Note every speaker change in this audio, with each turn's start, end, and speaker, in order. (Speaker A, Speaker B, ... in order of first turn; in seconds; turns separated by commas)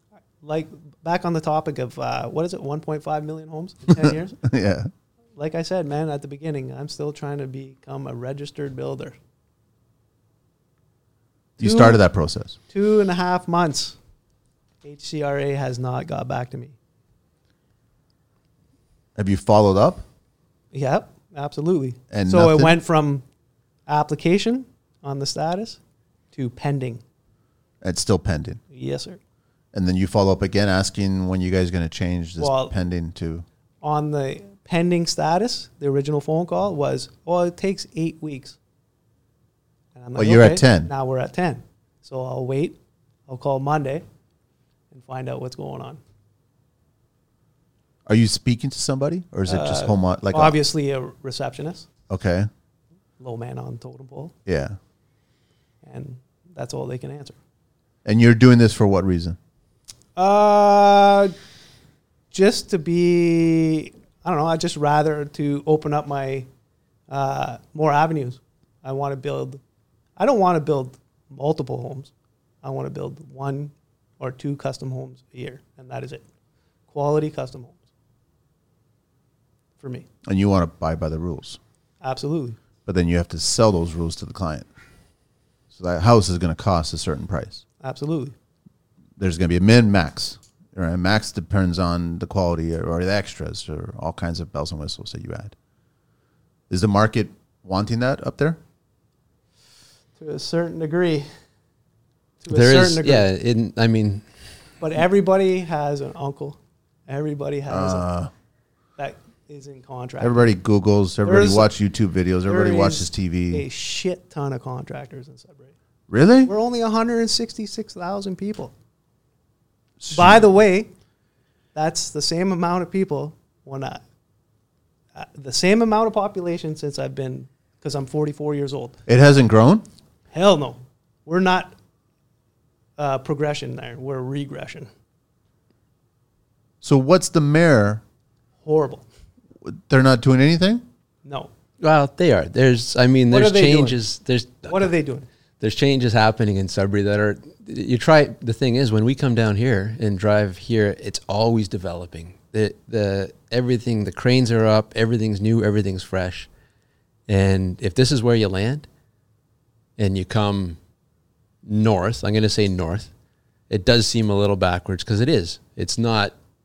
Speaker A: 0.4-4.4, Speaker B: 3.9-4.9, Speaker A: 5.4-9.2, Speaker A: 11.6-12.0, Speaker B: 11.6-12.6, Speaker A: 12.7-14.0, Speaker A: 14.8-16.8, Speaker B: 19.2-20.1, Speaker A: 20.7-23.2, Speaker B: 22.1-22.8, Speaker A: 23.9-25.8, Speaker A: 26.3-27.0, Speaker B: 27.8-28.6, Speaker A: 28.7-29.2, Speaker B: 29.7-33.5, Speaker A: 32.4-32.7, Speaker A: 33.8-38.6, Speaker A: 40.0-44.0, Speaker B: 40.2-40.9, Speaker A: 44.9-46.0, Speaker B: 48.1-50.6, Speaker A: 49.5-51.9, Speaker B: 52.1-52.5, Speaker A: 53.2-54.3, Speaker B: 54.5-54.8, Speaker A: 55.8-57.4, Speaker B: 58.0-59.4, Speaker A: 60.2-61.3, Speaker A: 62.3-66.5, Speaker A: 67.1-69.6, Speaker A: 70.2-72.1, Speaker A: 72.6-76.2, Speaker A: 76.9-77.8, Speaker A: 79.8-80.1, Speaker B: 80.2-81.6, Speaker A: 82.0-82.6, Speaker B: 82.9-84.7, Speaker B: 85.7-87.6, Speaker A: 87.8-88.3, Speaker B: 89.2-95.5, Speaker B: 96.7-98.6, Speaker A: 100.2-101.3, Speaker A: 102.4-103.3, Speaker C: 102.5-104.2, Speaker A: 104.8-106.6, Speaker A: 107.1-108.1, Speaker B: 107.7-108.3, Speaker A: 109.0-110.5, Speaker B: 110.2-113.7, Speaker A: 111.2-111.7, Speaker A: 112.5-115.7, Speaker B: 116.1-116.5, Speaker A: 116.5-118.7, Speaker B: 120.0-120.5, Speaker A: 120.1-120.9, Speaker A: 121.8-124.0, Speaker A: 125.2-129.0, Speaker B: 129.1-129.8, Speaker A: 130.3-131.8, Speaker A: 133.0-134.9, Speaker B: 136.8-138.0, Speaker A: 138.7-139.1, Speaker B: 139.6-140.8, Speaker A: 141.2-141.5, Speaker C: 141.8-144.9, Speaker A: 143.3-144.0, Speaker A: 144.7-145.3, Speaker C: 145.6-156.5, Speaker C: 157.3-158.9, Speaker C: 160.0-160.8, Speaker C: 161.7-163.1, Speaker C: 163.7-166.3